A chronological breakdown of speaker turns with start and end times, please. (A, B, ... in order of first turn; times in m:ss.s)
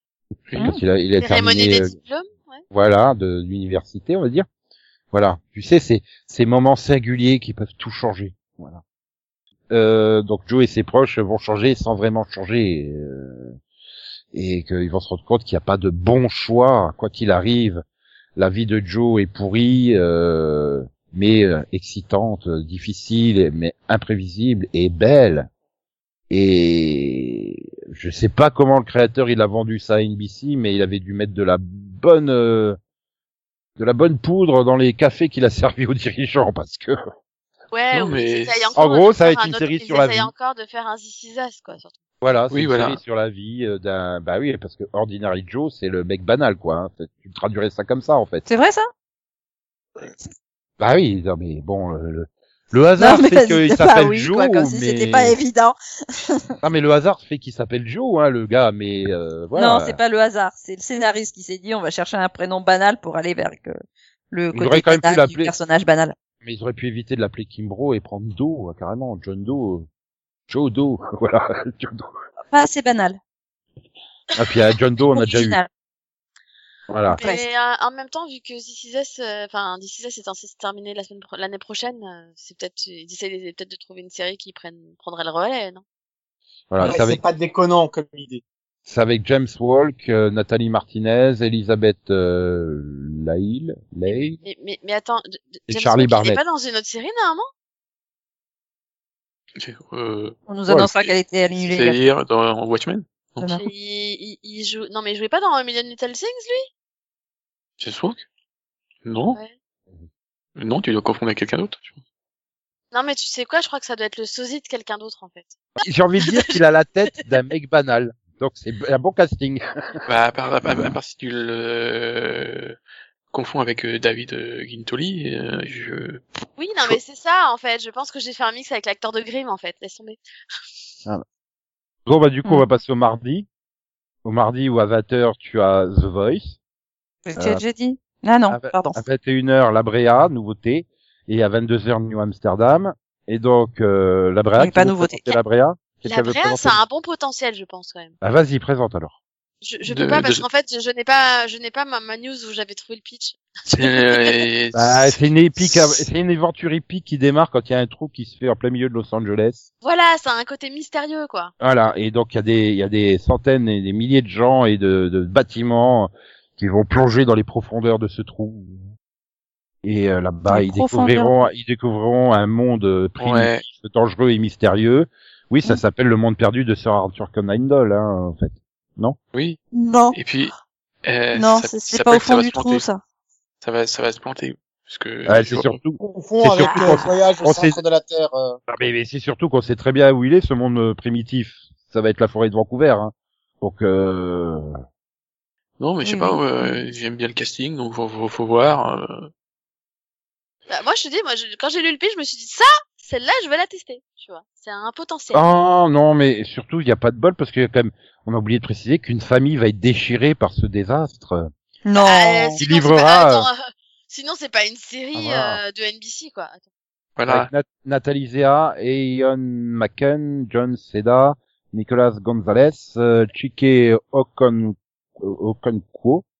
0:00.5-0:00.8 A
0:00.6-0:02.0 B
0:01.2-0:02.6 C
0:02.7-0:04.5 B
0:05.1-0:08.8 B
0:09.7-0:13.6 B
0:14.3-0:17.8 B
0:18.4-0:25.5 B
0:26.3-0:32.8 B
0:33.8-0:37.0 B
0:37.7-0:41.9 C
0:37.9-0:38.7 A
0:38.8-0:40.3 B
0:42.2-0:48.4 B
0:42.5-0:43.0 A
0:48.4-0:48.9 D
0:50.8-0:55.4 B
0:53.0-0:56.5 D
0:56.6-1:00.0 B
0:59.5-1:06.1 D
1:04.5-1:05.5 B
1:06.4-1:09.9 B
1:10.5-1:12.1 B
1:12.5-1:13.2 D
1:14.4-1:15.6 B
1:15.0-1:15.7 D
1:16.9-1:17.2 B
1:17.1-1:25.8 C
1:17.2-1:17.4 D
1:26.7-1:27.2 B
1:26.8-1:28.4 E
1:28.9-1:34.4 B
1:34.4-1:37.4 C
1:35.7-1:36.4 B
1:39.6-1:40.4 A
1:40.5-1:42.0 D
1:40.7-1:40.9 B
1:41.6-1:43.6 A
1:43.4-1:43.7 D
1:43.6-1:46.7 C
1:47.8-1:48.2 A
1:49.0-1:49.4 A
1:50.6-1:52.0 A
1:52.9-1:55.6 C
1:55.8-1:59.6 B
1:56.2-1:56.6 C
2:00.1-2:02.8 A
2:03.3-2:06.2 A
2:06.6-2:10.2 C
2:12.0-2:13.5 B
2:14.2-2:16.6 B
2:17.2-2:19.0 D
2:17.4-2:17.6 B
2:18.5-2:26.8 B
2:24.6-2:25.3 D
2:26.0-2:28.1 C
2:28.2-2:29.2 B
2:29.6-2:34.3 C
2:29.8-2:30.4 A
2:33.7-2:35.2 A
2:34.7-2:39.6 B
2:39.8-2:41.5 C
2:41.6-2:48.9 B
2:49.8-2:59.2 B
2:50.5-2:51.4 D
2:53.2-2:53.6 A
2:59.3-2:59.6 A
2:59.7-3:00.2 D
3:00.1-3:00.5 A
3:01.0-3:02.8 A
3:01.3-3:03.0 D
3:03.6-3:05.8 A
3:05.3-3:07.8 B
3:06.0-3:08.6 E
3:06.6-3:07.0 D
3:08.7-3:14.8 B
3:15.8-3:19.3 A
3:16.0-3:16.8 D
3:20.7-3:25.4 C
3:25.3-3:31.5 B
3:31.8-3:32.6 D
3:32.0-3:33.6 C
3:32.6-3:33.5 B
3:34.1-3:36.6 C
3:35.1-3:35.6 B
3:37.2-3:37.5 A
3:37.3-3:46.2 B